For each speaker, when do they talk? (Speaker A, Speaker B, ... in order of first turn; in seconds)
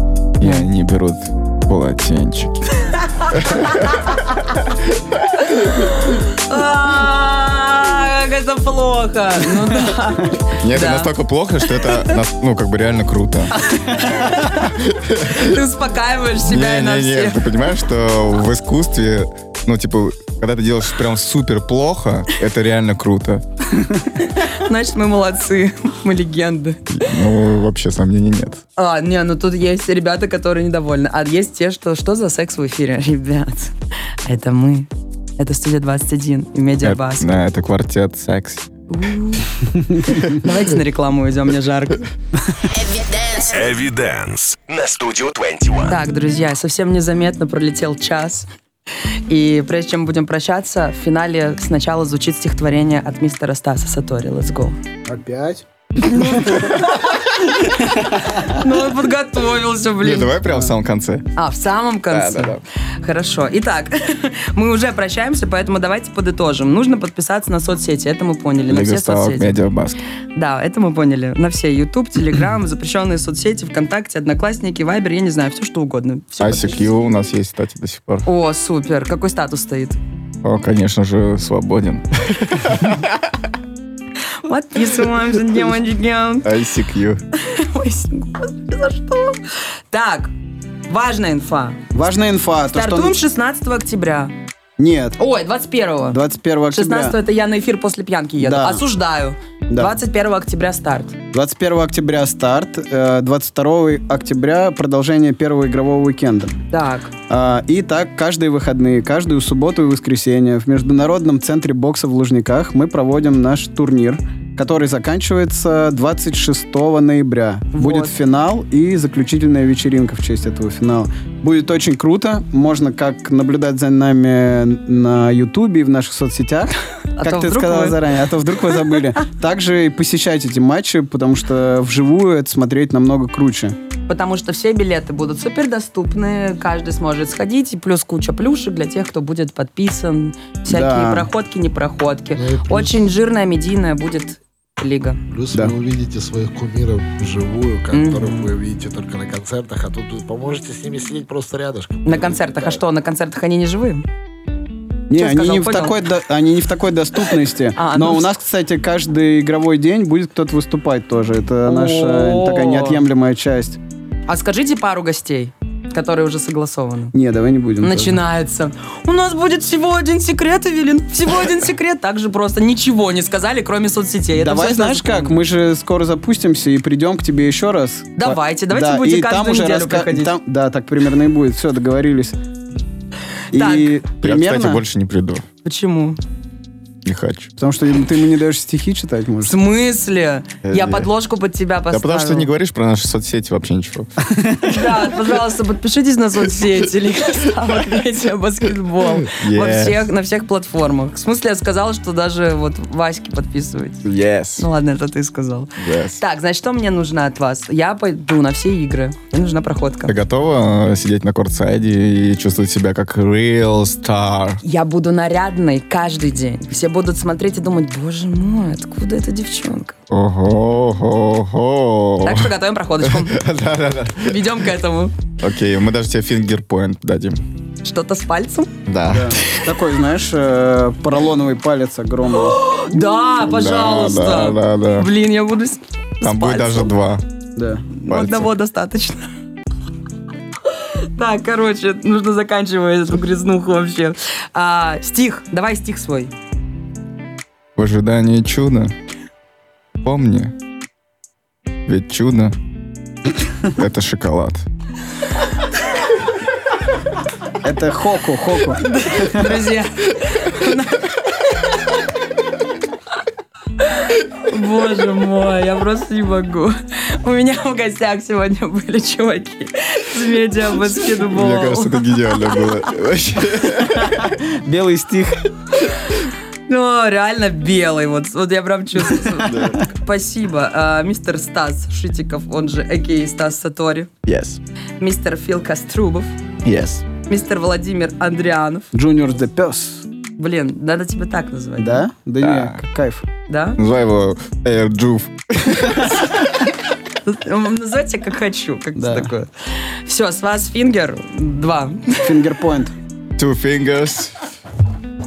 Speaker A: 0.4-4.7, 10.6-13.6, 14.7-15.6, 16.4-23.4, 26.9-28.6, 36.8-38.7, 60.0-61.3, 62.1-62.6, 68.7-70.0, 76.4-78.3, 80.4-83.2, 86.4-87.2, 184.2-185.5, 187.0-187.5, 190.7-191.1, 191.9-194.1, 199.3-200.0, 204.1-204.7, 205.8-206.2, 210.1-214.6, 220.1-224.6, 225.4-227.4, 228.9-229.4, 233.4-235.1, 236.2-237.2, 238.1-238.5, 247.8-248.9, 250.0-250.5, 251.9-252.5, 253.7-254.7, 271.3-274.3, 279.5-279.8, 284.3-284.6, 286.6-287.1, 292.4-292.8, 293.8-296.2, 303.4-304.4
Speaker B: 0.4-0.7, 5.5-11.1, 11.8-12.2, 13.7-14.7, 15.3-17.4, 24.2-27.0, 28.8-33.7, 34.3-37.4, 38.9-39.5, 40.2-42.1, 45.8-48.5, 49.3-54.8, 56.1-57.8, 58.3-60.3, 61.4-69.6, 70.4-77.1, 78.2-80.0, 84.5-86.5, 87.4-90.3, 90.9-91.8, 92.7-94.3, 95.2-96.2, 96.7-101.2, 106.7-107.1, 117.8-118.1, 127.2-128.0, 134.1-145.2, 147.9-148.4, 152.1-154.1, 155.2-156.0, 157.8-158.3, 161.7-163.0, 164.3-167.1, 167.8-175.4, 178.2-180.3, 183.5-183.9, 185.7-186.2, 189.4-192.5, 194.6-204.1, 204.6-210.2, 214.6-219.9, 222.2-223.4, 224.2-225.1, 227.8-228.8, 232.4-236.9, 237.9-239.3, 241.2-246.3, 258.8-261.3, 263.9-272.6, 276.7-284.1, 285.0-286.4, 287.3-288.9, 290.4-292.1, 293.5-293.8, 297.2-302.3
Speaker C: 42.7-46.0
Speaker D: 55.1-56.8, 57.8-58.5, 91.9-93.2, 94.8-95.2, 96.1-97.2, 98.4-98.8, 101.3-106.6, 107.3-133.8, 140.7-141.3, 155.1-163.8, 167.1-168.2, 174.3-182.4, 183.5-184.8, 187.6-189.6, 194.4-194.6, 229.1-232.6, 237.6-237.9, 257.6-259.5, 274.0-275.4, 279.1-279.8, 288.9-290.1, 291.8-293.2, 299.0-299.3, 302.2-302.9
Speaker E: 142.3-143.0, 145.3-152.8